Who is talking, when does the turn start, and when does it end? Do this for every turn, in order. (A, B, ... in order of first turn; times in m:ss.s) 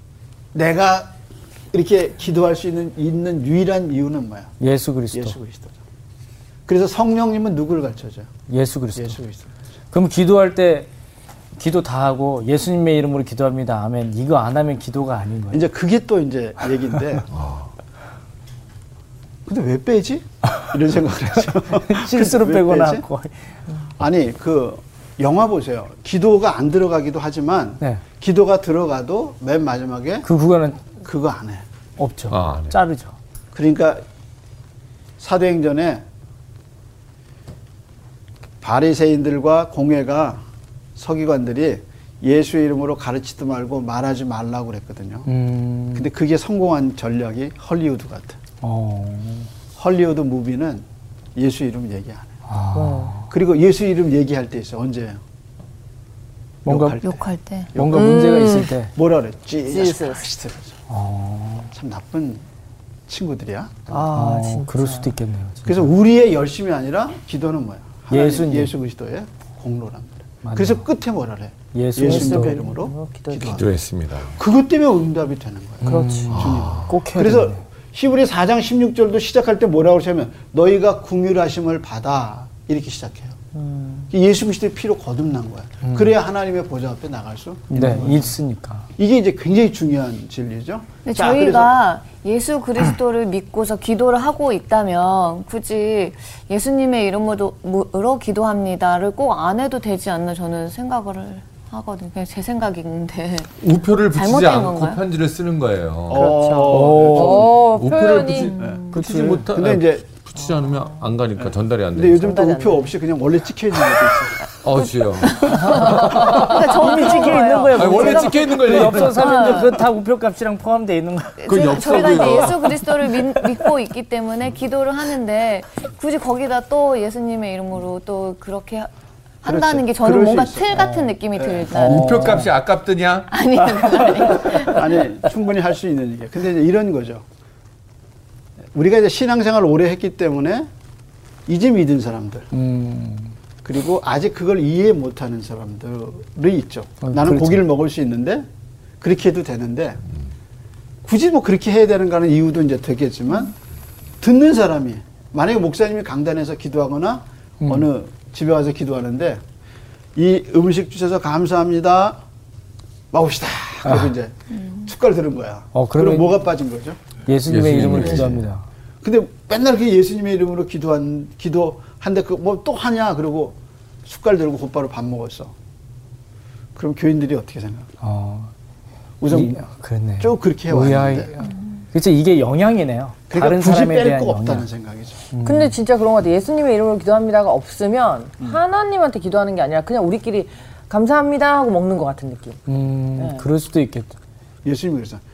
0:00.5-0:01.2 A
0:01.7-0:04.5 A
0:04.6-0:05.4 B
0:05.1-0:05.8 A
0:06.7-0:08.3 A
0:08.5-0:09.2 B
0:08.9-0:09.5 A
0:09.9-0:10.9 B
0:11.6-0:15.6 B
0:15.5-0:17.3 A
0:17.3-0:17.7 C
0:19.4-0:23.0 A
0:21.7-0:23.4 B
0:24.0-0:30.3 A
0:30.2-0:30.9 B
0:31.0-0:31.6 A
0:32.0-0:33.2 B
0:32.3-0:32.8 C
0:33.5-0:34.0 A
0:35.2-0:36.0 A
0:38.6-0:40.4 A
0:40.9-0:45.3 A
0:45.3-0:46.1 B
0:45.9-0:48.4 A
0:48.6-0:49.5 B
0:49.7-0:52.3 A
0:52.5-0:53.3 B
0:52.7-0:53.1 D
0:53.3-0:55.2 A
0:56.6-0:57.0 B
0:56.6-1:00.8 A
0:57.0-0:58.7 E
0:57.7-0:58.9 B
0:59.7-1:00.2 E
1:00.9-1:01.7 B
1:01.7-1:02.4 A
1:03.1-1:04.1 A
1:03.9-1:05.1 D
1:04.1-1:05.9 B
1:05.6-1:13.7 A
1:08.1-1:08.7 B
1:10.4-1:10.8 B
1:11.7-1:12.6 B
1:12.0-1:13.6 D
1:13.5-1:14.4 C
1:14.3-1:23.4 A
1:15.8-1:17.6 B
1:15.8-1:16.4 D
1:16.3-1:16.9 C
1:23.5-1:24.1 D
1:24.1-1:28.3 A
1:25.8-1:26.1 B
1:27.7-1:28.9 B
1:29.0-1:31.7 A
1:31.0-1:45.0 E
1:43.6-1:52.3 C
1:46.1-1:47.5 A
1:46.1-1:48.7 D
1:46.7-1:47.5 B
1:48.5-1:50.0 A
1:48.9-1:49.4 B
1:51.4-1:54.5 A
1:52.2-1:52.9 D
1:54.6-1:56.7 C
1:55.3-1:58.4 E
1:55.5-1:57.6 D
1:55.8-2:02.1 B
1:57.7-1:59.4 C
1:59.1-1:59.8 E
2:01.4-2:08.9 E
2:01.4-2:02.9 C
2:09.4-2:12.3 E
2:09.4-2:11.7 A
2:10.8-2:11.1 B
2:11.7-2:13.3 C
2:11.7-2:12.5 B
2:13.3-2:14.9 E
2:13.9-2:14.5 B
2:14.6-2:17.2 A
2:18.7-2:20.7 A
2:21.5-2:22.5 A
2:22.5-2:23.4 B
2:23.6-2:28.5 A
2:27.0-2:27.6 B
2:29.0-2:30.0 A
2:31.0-2:33.5 A
2:34.2-2:39.4 A
2:37.6-2:37.9 B
2:40.2-2:42.2 A
2:43.1-2:47.0 A
2:43.8-2:44.1 B
2:45.7-2:46.4 B
2:47.3-2:48.6 B
2:47.5-2:48.4 C
2:49.0-2:55.5 A
2:56.8-2:57.9 A
2:58.0-2:58.5 B
2:59.2-3:01.3 A
2:59.2-3:04.7 B
3:03.3-3:05.2 A
3:05.3-3:05.7 B
3:05.4-3:12.6 D
3:12.7-3:14.2 B
3:13.2-3:13.5 D
3:14.6-3:15.2 A